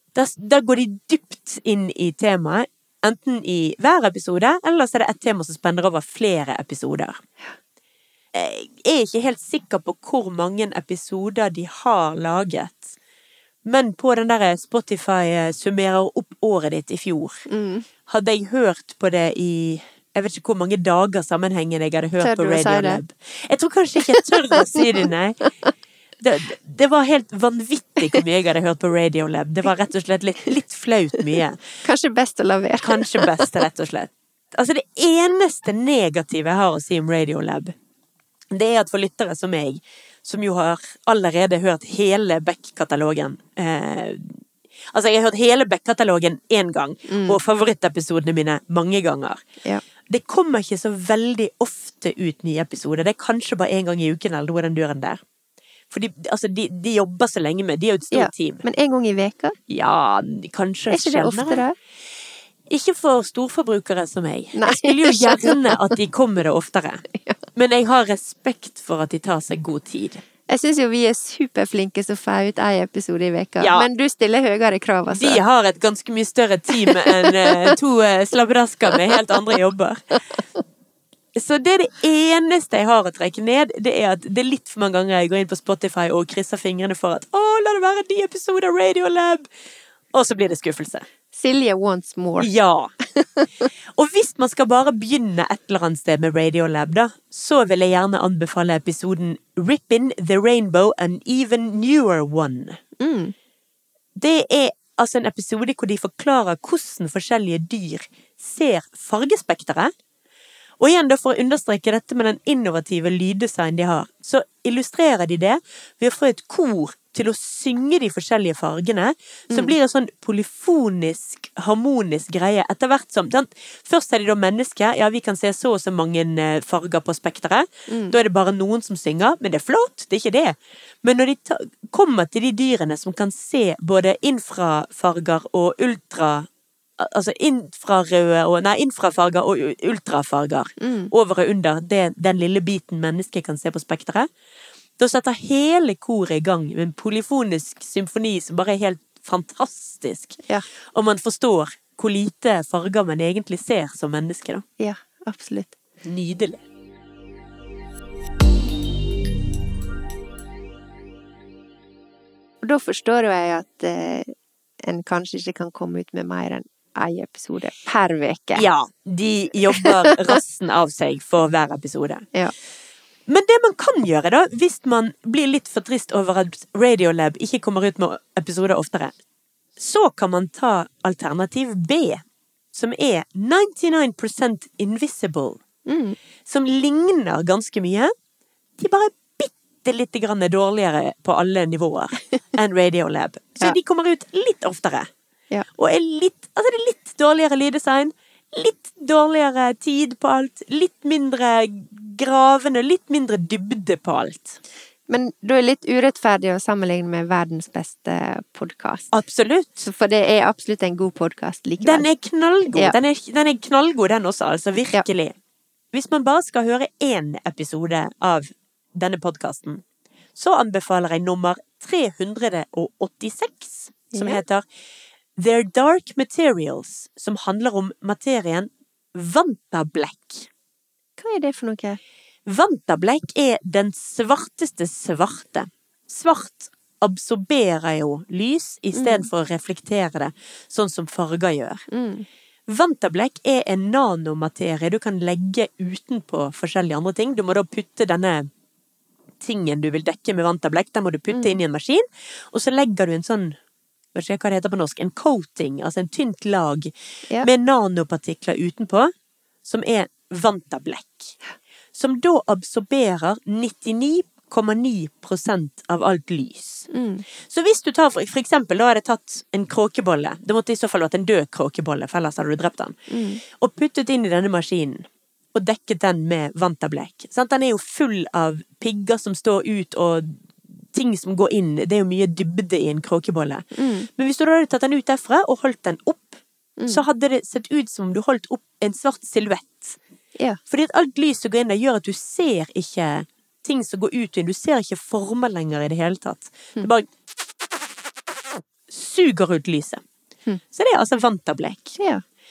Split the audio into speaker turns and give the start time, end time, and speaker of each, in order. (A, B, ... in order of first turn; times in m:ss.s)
0:00.1-0:07.2 A
0:08.3-0:13.0 A
0:13.6-0:17.4 A
0:17.5-0:17.9 B
0:18.1-0:25.5 A
0:22.2-0:23.0 B
0:24.2-0:24.7 B
0:26.2-0:31.6 A
0:31.8-0:33.5 B
0:32.8-0:37.7 A
0:38.5-0:49.4 A
0:47.1-0:47.4 B
0:50.1-0:55.2 A
0:55.9-0:58.6 A
0:58.1-0:59.6 B
0:59.7-1:01.6 A
1:00.9-1:01.7 B
1:02.7-1:10.2 A
1:04.5-1:05.8 B
1:10.5-1:15.4 B
1:13.6-1:13.9 A
1:15.1-1:20.0 A
1:16.8-1:17.7 B
1:21.3-1:29.5 A
1:30.1-1:31.0 A
1:31.3-1:32.5 B
1:32.4-1:32.9 A
1:33.1-1:33.7 B
1:33.9-1:42.8 A
1:43.0-1:43.3 B
1:44.2-1:49.9 A
1:50.8-2:24.3 A
2:07.9-2:08.1 B
2:20.8-2:21.1 B
2:25.0-2:30.4 A
2:30.9-2:34.6 A
2:34.8-2:35.8 B
2:36.0-2:36.6 A
2:42.6-2:44.3 B
2:44.8-2:48.7 B
2:48.5-2:52.3 A
2:49.7-2:50.4 B
2:53.3-2:59.1 A
2:59.8-3:05.6 A
3:05.9-3:06.2 B
3:06.4-3:08.1 A
3:08.8-3:15.1 A
3:15.7-3:24.6 A
3:25.1-3:29.1 B
3:29.1-3:29.8 A
3:29.8-3:32.0 B
3:31.8-3:35.4 A
3:35.9-3:39.8 A
3:40.3-3:44.6 A
3:44.1-3:44.4 B
3:45.4-3:50.5 A
3:51.2-3:52.0 B
3:52.4-4:01.8 A
3:58.9-3:59.3 B
4:01.9-4:02.2 B
4:02.7-4:08.5 A
4:09.4-4:13.6 A
4:11.3-4:11.6 B
4:14.1-4:19.1 A
4:19.6-4:21.3 A
4:21.9-4:26.9 A
4:26.9-4:27.2 B
4:27.5-4:40.4 A
4:33.1-4:33.4 B
4:40.9-4:50.0 A
4:43.8-4:44.1 B
4:46.8-4:47.0 B
4:50.7-4:57.1 A
4:57.6-4:57.9 A
4:58.6-5:00.0 A
5:00.7-5:02.0 A